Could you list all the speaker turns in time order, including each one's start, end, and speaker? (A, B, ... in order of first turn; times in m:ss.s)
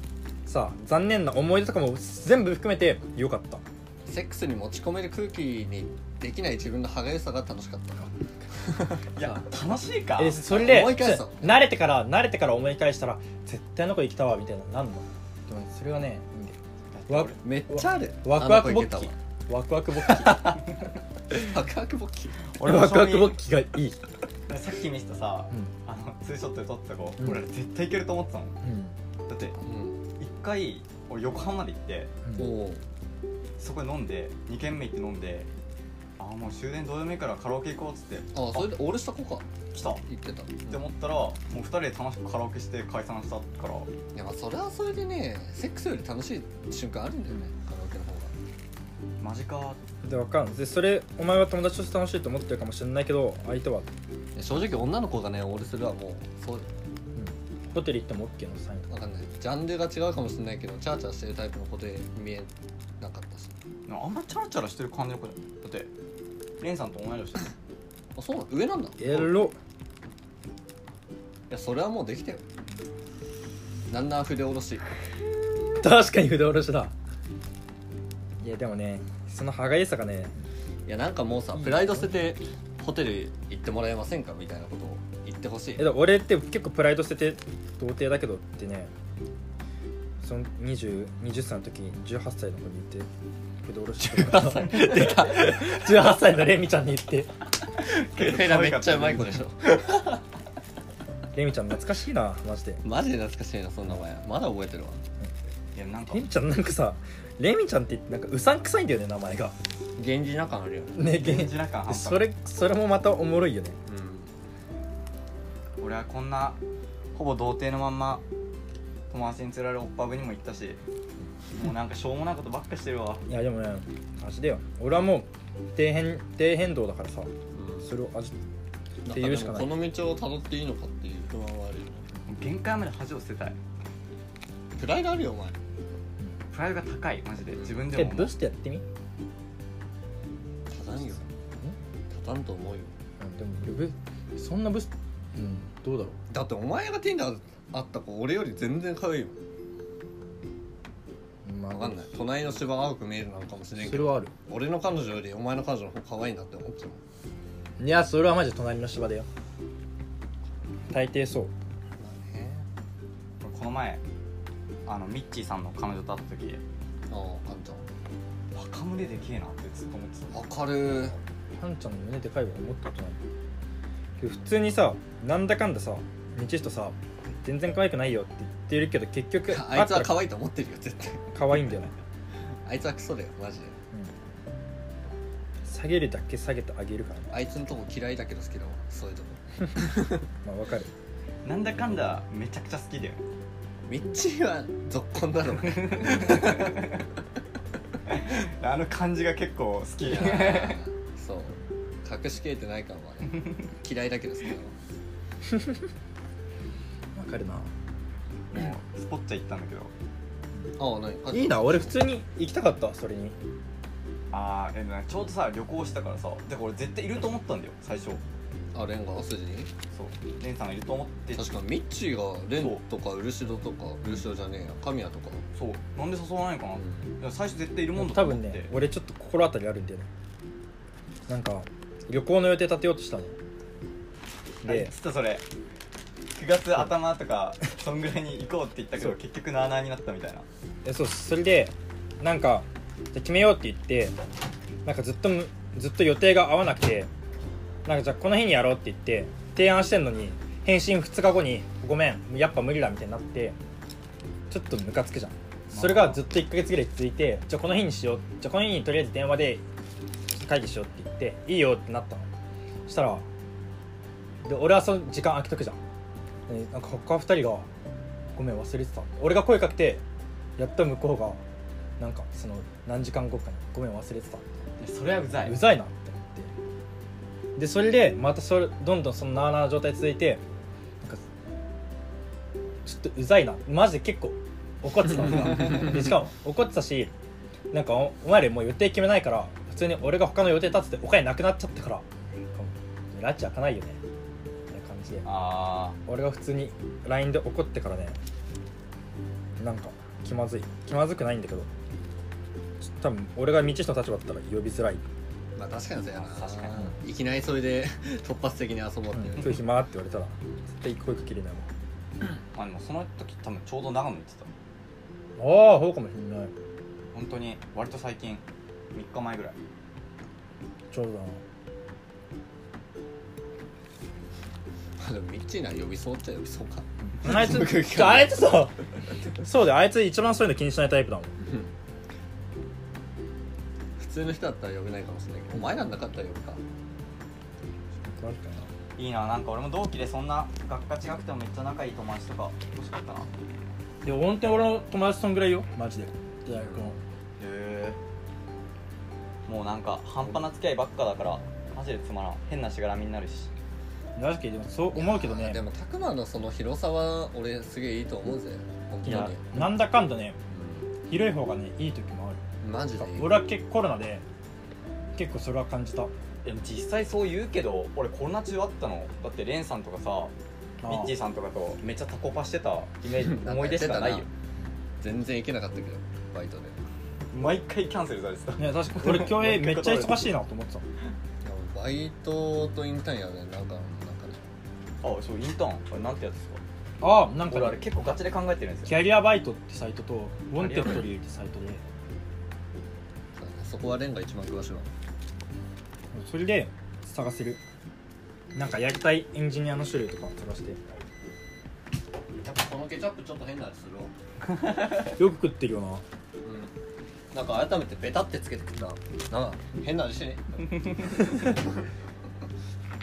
0:00.4-0:03.6 A
0:04.1-0:09.0 B
0:09.1-0:10.4 C
0:09.2-0:09.4 A
0:10.2-0:16.6 A
0:10.4-0:11.6 B
0:16.9-0:17.4 C
0:17.1-0:20.6 A
0:17.4-0:19.1 B
0:21.3-0:22.4 B
0:22.6-0:23.4 C
0:22.6-0:24.0 A
0:24.5-0:28.6 C
0:28.6-0:28.9 A
0:29.3-0:29.6 C
0:29.6-0:30.0 B
0:30.2-0:32.1 C
0:32.2-0:32.5 A
0:32.4-0:32.8 B
0:33.6-0:35.5 C
0:36.2-0:38.7 C
0:38.3-0:40.8 B
0:39.7-0:40.0 C
0:40.7-0:43.9 C
0:44.1-0:48.3 B
0:49.2-0:49.8 C
0:50.0-0:53.9 A
0:54.4-0:56.7 B
0:57.2-0:58.9 A
0:58.9-1:03.5 B
1:03.9-1:05.9 C
1:06.6-1:07.5 C
1:08.1-1:09.3 B
1:09.0-1:09.6 A
1:11.5-1:12.4 B
1:13.9-1:14.8 B
1:15.8-1:16.9 A
1:18.4-1:20.3 A
1:20.8-1:25.9 B
1:21.6-1:22.0 A
1:25.8-1:28.9 A
1:30.2-1:33.1 A
1:33.6-1:37.3 A
1:34.0-1:35.6 B
1:37.8-1:40.0 C
1:38.1-1:40.0 B
1:41.3-1:42.8 A
1:42.8-1:45.0 B
1:45.7-1:46.3 C
1:46.1-1:49.5 A
1:50.0-1:51.0 B
1:50.9-1:53.8 A
1:51.1-1:52.2 C
1:53.8-1:54.3 B
1:55.8-1:56.6 C
1:57.1-1:58.2 C
1:59.1-2:00.8 C
2:01.5-2:03.2 C
2:03.3-2:07.3 A
2:07.5-2:07.9 B
2:07.8-2:08.3 A
2:09.0-2:12.1 B
2:09.0-2:09.7 A
2:12.3-2:13.6 C
2:14.8-2:15.6 B
2:16.5-2:18.3 C
2:17.5-2:17.9 B
2:17.9-2:18.8 A
2:20.7-2:21.2 B
2:22.1-2:22.9 B
2:23.2-2:26.2 A
2:26.3-2:29.4 B
2:31.4-2:32.3 A
2:31.7-2:37.0 B
2:33.8-2:34.3 A
2:37.8-2:39.3 A
2:40.9-2:41.5 A
2:42.0-2:42.7 B
2:43.4-2:44.0 C
2:44.8-2:46.6 C
2:47.1-2:47.9 B
2:48.5-2:50.4 C
2:50.3-2:51.2 B
2:51.5-2:53.2 A
2:54.2-3:00.2 A
2:59.5-3:01.3 B
3:01.3-3:01.9 A
3:02.6-3:03.8 B
3:05.6-3:07.3 A
3:07.3-3:10.2 B
3:10.4-3:10.9 A
3:11.4-3:13.2 C
3:13.8-3:16.9 B
3:15.7-3:17.0 C
3:18.1-3:20.8 C
3:20.0-3:24.7 B
3:27.1-3:27.7 A
3:28.5-3:29.9 C
3:30.8-3:32.0 B
3:31.3-3:33.4 A
3:34.3-3:38.2 C
3:38.7-3:39.7 B
3:39.9-3:41.5 C
3:41.3-3:45.4 B
3:45.5-3:48.7 C
3:46.8-3:47.0 B
3:48.0-3:50.1 A
3:51.3-3:53.4 A
3:54.6-3:55.4 C
3:54.6-3:54.9 A
3:56.4-4:00.4 C
4:00.8-4:04.2 A
4:04.8-4:07.1 A
4:07.8-4:13.6 A
4:14.5-4:19.6 A
4:15.7-4:16.2 C
4:20.3-4:22.2 A
4:22.9-4:23.2 A
4:24.4-4:25.8 A
4:26.5-4:27.7 A
4:28.3-4:30.0 A
4:30.6-4:31.4 A
4:32.0-4:34.6 A
4:34.8-4:35.6 C
4:35.4-4:36.5 A
4:37.6-4:40.4 A
4:42.8-4:47.1 A
4:47.7-4:54.0 A
4:54.7-4:55.3 A
4:55.2-4:56.0 C
4:56.0-4:58.2 A
4:59.6-5:01.7 A
5:02.8-5:05.0 A
5:05.6-5:09.6 B
5:06.1-5:06.9 C
5:09.1-5:11.7 A
5:12.5-5:14.5 C
5:15.4-5:16.5 A
5:17.1-5:19.6 C
5:20.9-5:21.4 A
5:25.0-5:28.4 B
5:27.1-5:28.8 A
5:29.3-5:31.3 A
5:31.4-5:31.7 B
5:34.0-5:36.6 B
5:38.0-5:38.7 A
5:39.0-5:43.3 C
5:44.0-5:47.0 A
5:46.5-5:47.0 B
5:47.4-5:48.0 C
5:49.5-5:53.5 C
5:54.2-5:55.6 A
5:54.9-5:59.7 B
5:59.0-6:00.4 A
6:00.5-6:00.9 B
6:01.1-6:02.4 A
6:02.6-6:03.4 B
6:03.0-6:04.2 A
6:05.2-6:06.1 A
6:06.4-6:10.3 C
6:10.8-6:11.1 A
6:10.9-6:14.3 C
6:13.1-6:14.3 B
6:15.0-6:16.8 B
6:17.3-6:20.3 C
6:18.6-6:20.8 A
6:21.4-6:24.4 B
6:25.0-6:26.6 C
6:27.0-6:27.8 A
6:27.5-6:29.0 C
6:28.8-6:31.8 A
6:30.6-6:31.0 C
6:33.3-6:34.9 B
6:36.1-6:37.6 A
6:38.5-6:40.8 A
6:42.4-6:44.1 B
6:45.0-6:46.0 A
6:46.4-6:46.7 B
6:47.3-6:51.6 B